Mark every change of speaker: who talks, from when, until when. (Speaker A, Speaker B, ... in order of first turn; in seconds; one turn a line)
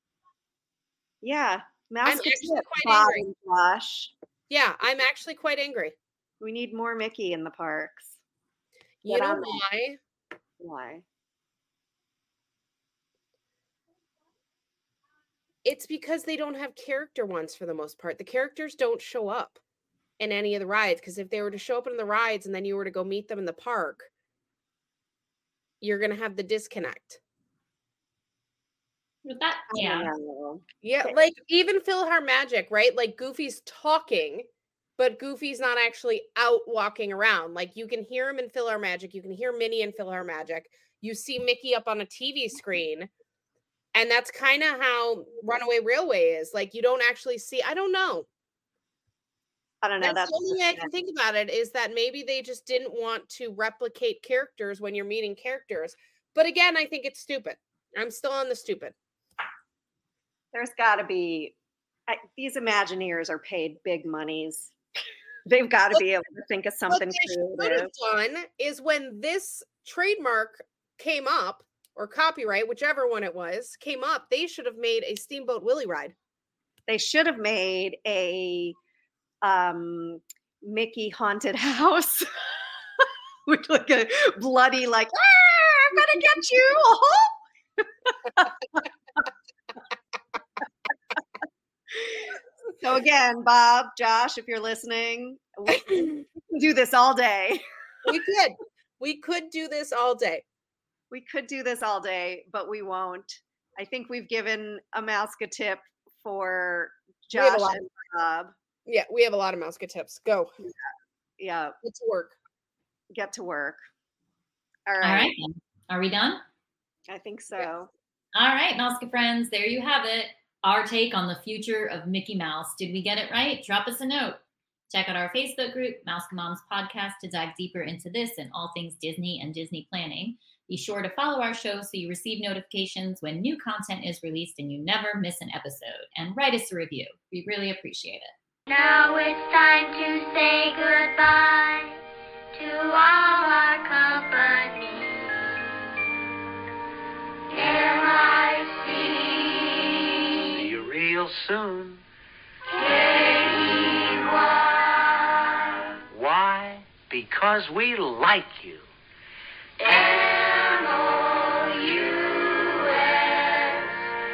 Speaker A: 1.2-4.1
Speaker B: 2.0-3.2
Speaker B: 4.5-6.0
Speaker A: 6.4-8.2
Speaker B: 9.0-10.0
Speaker A: 9.1-9.6
Speaker A: 10.6-11.0
Speaker B: 15.6-19.6
Speaker B: 20.2-24.1
Speaker B: 25.8-27.2
Speaker C: 29.2-30.1
Speaker A: 29.7-31.2
Speaker B: 30.8-34.5
Speaker B: 35.0-43.1
Speaker B: 43.9-48.3
Speaker A: 49.8-50.9
Speaker B: 50.0-58.9
Speaker A: 60.5-61.5
Speaker A: 62.1-64.7
Speaker A: 65.5-67.9
Speaker B: 66.9-76.1
Speaker A: 76.9-78.8
Speaker A: 79.4-82.3
Speaker A: 83.0-88.8
Speaker A: 91.9-97.6
Speaker B: 98.0-100.4
Speaker A: 101.1-108.5
Speaker B: 107.3-107.8
Speaker B: 108.9-110.5
Speaker A: 111.4-111.8
Speaker B: 111.8-112.3
Speaker A: 113.1-113.8
Speaker A: 114.9-115.3
Speaker C: 115.0-116.4
Speaker A: 117.1-117.9
Speaker C: 118.3-124.4
Speaker C: 124.9-138.3
Speaker D: 138.7-142.0
Speaker D: 142.5-145.2
Speaker D: 147.5-150.6
Speaker E: 150.6-152.0
Speaker D: 152.7-155.3
Speaker E: 156.1-158.9
Speaker D: 159.8-163.9